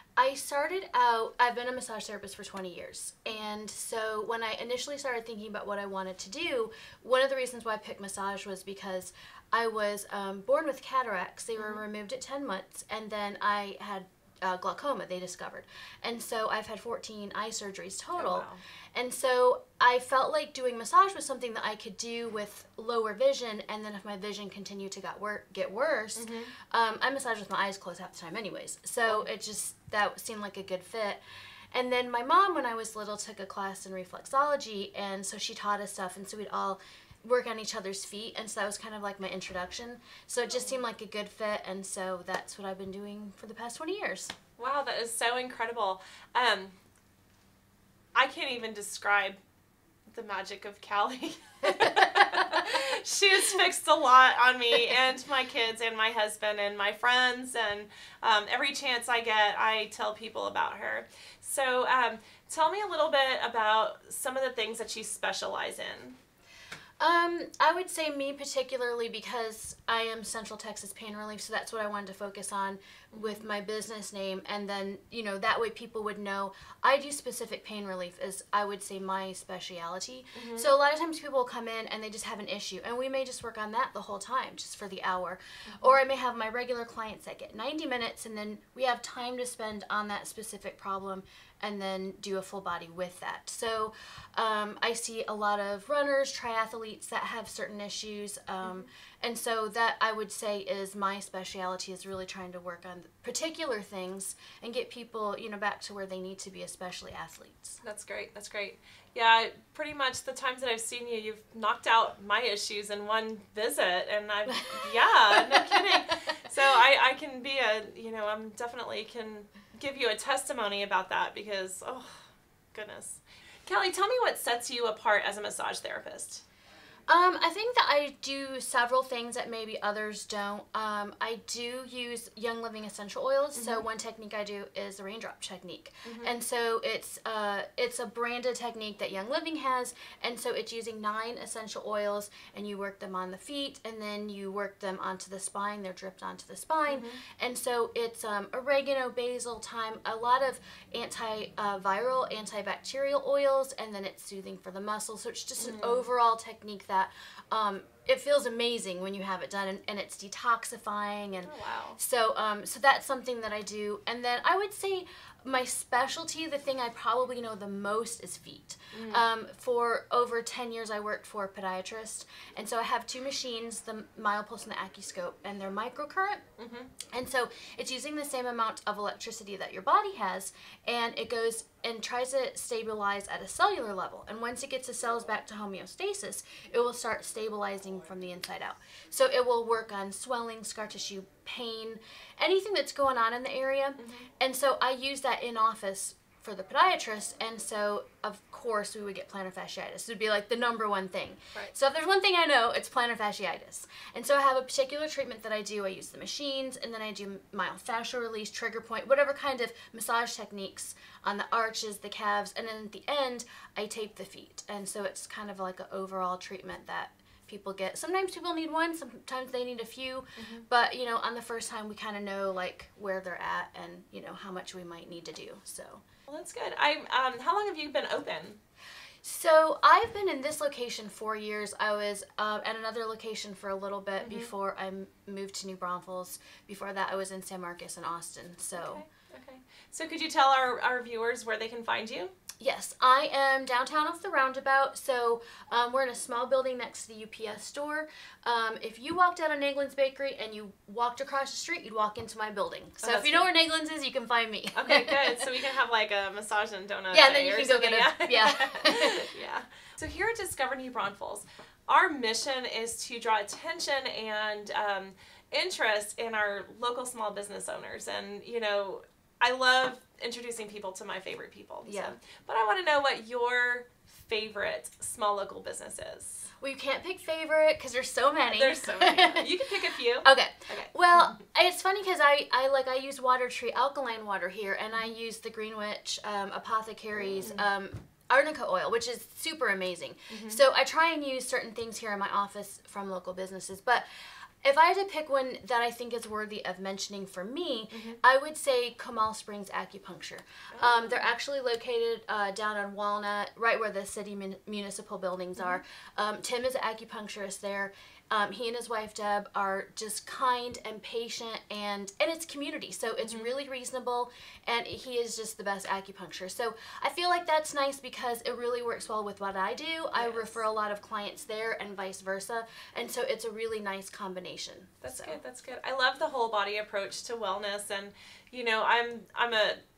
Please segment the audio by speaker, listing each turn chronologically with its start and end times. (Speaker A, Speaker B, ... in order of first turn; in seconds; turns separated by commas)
Speaker A: 0.2-31.2, Speaker B: 11.6-11.8, Speaker B: 18.1-18.6, Speaker B: 26.1-26.5, Speaker A: 31.7-44.3, Speaker B: 40.4-40.8, Speaker B: 44.6-46.7, Speaker B: 48.1-49.4, Speaker B: 50.1-66.2, Speaker A: 51.8-52.4, Speaker A: 67.0-107.8, Speaker B: 73.1-73.4, Speaker B: 80.3-80.7, Speaker B: 85.7-86.0, Speaker B: 98.6-98.9, Speaker B: 107.8-126.4, Speaker A: 114.5-116.1, Speaker A: 127.1-176.4, Speaker B: 133.5-133.8, Speaker B: 136.0-136.3, Speaker B: 146.9-147.2, Speaker B: 155.6-156.1, Speaker B: 161.4-162.0, Speaker B: 168.9-169.2, Speaker B: 176.6-176.9, Speaker A: 177.1-226.0, Speaker B: 194.0-194.3, Speaker B: 220.3-220.7, Speaker B: 226.3-228.6, Speaker A: 229.2-239.0, Speaker B: 234.2-234.5, Speaker B: 238.7-242.3, Speaker A: 242.6-255.5, Speaker B: 253.0-253.5, Speaker B: 254.7-276.5, Speaker A: 257.1-259.3, Speaker A: 271.9-272.1, Speaker A: 276.6-294.1, Speaker B: 278.5-281.3, Speaker B: 287.4-287.6, Speaker B: 290.3-290.6, Speaker A: 294.6-325.4, Speaker B: 297.9-298.2, Speaker B: 300.7-301.3, Speaker B: 313.2-313.5, Speaker B: 320.1-320.6, Speaker B: 325.0-329.8